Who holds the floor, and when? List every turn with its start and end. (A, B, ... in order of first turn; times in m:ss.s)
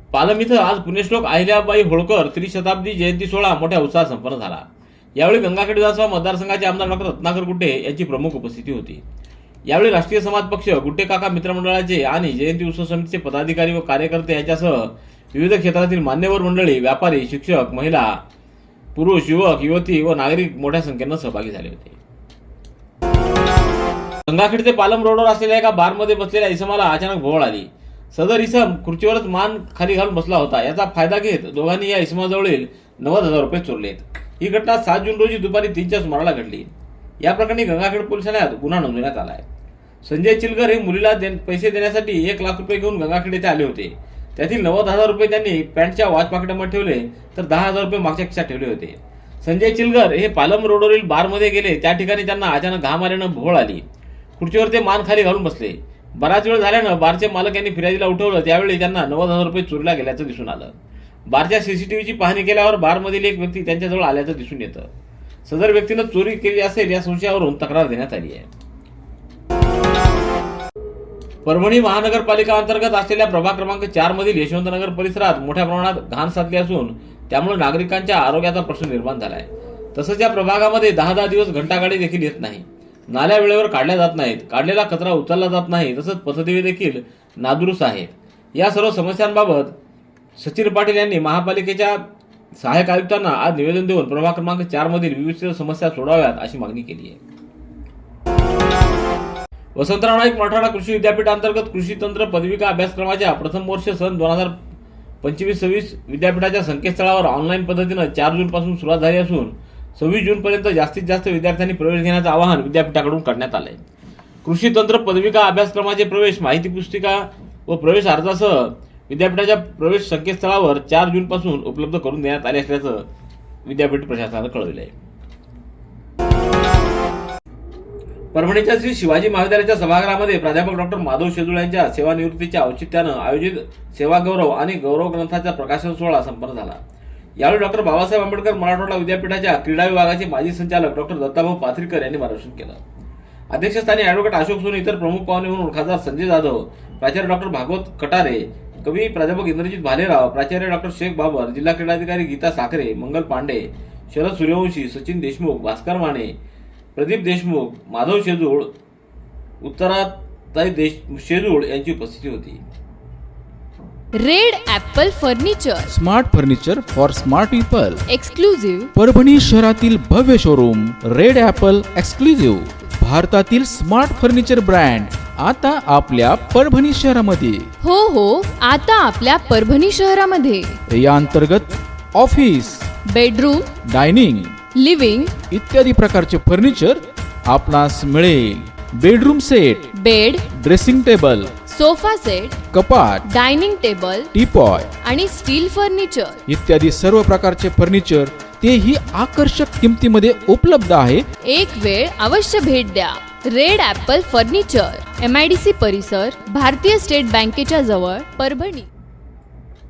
0:00.1-0:04.6 A
0:05.2-0:09.0 A
0:09.7-0:18.2 A
0:18.9-0:22.0 A
0:24.3-0:36.7 A
0:37.2-0:39.4 A
0:40.0-0:53.8 A
0:54.4-1:00.7 A
1:01.3-1:04.9 A
1:05.4-1:08.5 A
1:11.4-1:29.8 A
1:30.4-1:32.0 A
1:32.6-1:37.2 A
1:39.8-1:44.6 A
1:45.2-1:53.8 A
1:54.4-2:03.0 A
2:03.6-2:04.9 A
2:08.3-2:16.8 A
2:17.4-2:22.8 A
2:23.5-2:36.3 A
2:37.0-2:38.7 A
2:39.6-2:42.6 A
2:44.2-2:45.9 B
2:46.0-2:48.0 C
2:48.1-2:48.9 B
2:49.0-2:57.6 C
2:57.8-3:00.8 B
3:01.0-3:02.8 C
3:03.1-3:03.7 B
3:03.9-3:04.5 C
3:04.7-3:05.4 B
3:05.5-3:07.0 C
3:07.5-3:09.8 C
3:09.9-3:10.4 B
3:10.6-3:11.6 C
3:11.7-3:12.6 B
3:12.7-3:13.2 C
3:13.2-3:14.3 B
3:14.3-3:14.9 C
3:15.0-3:16.4 B
3:16.5-3:21.2 C
3:21.5-3:28.9 B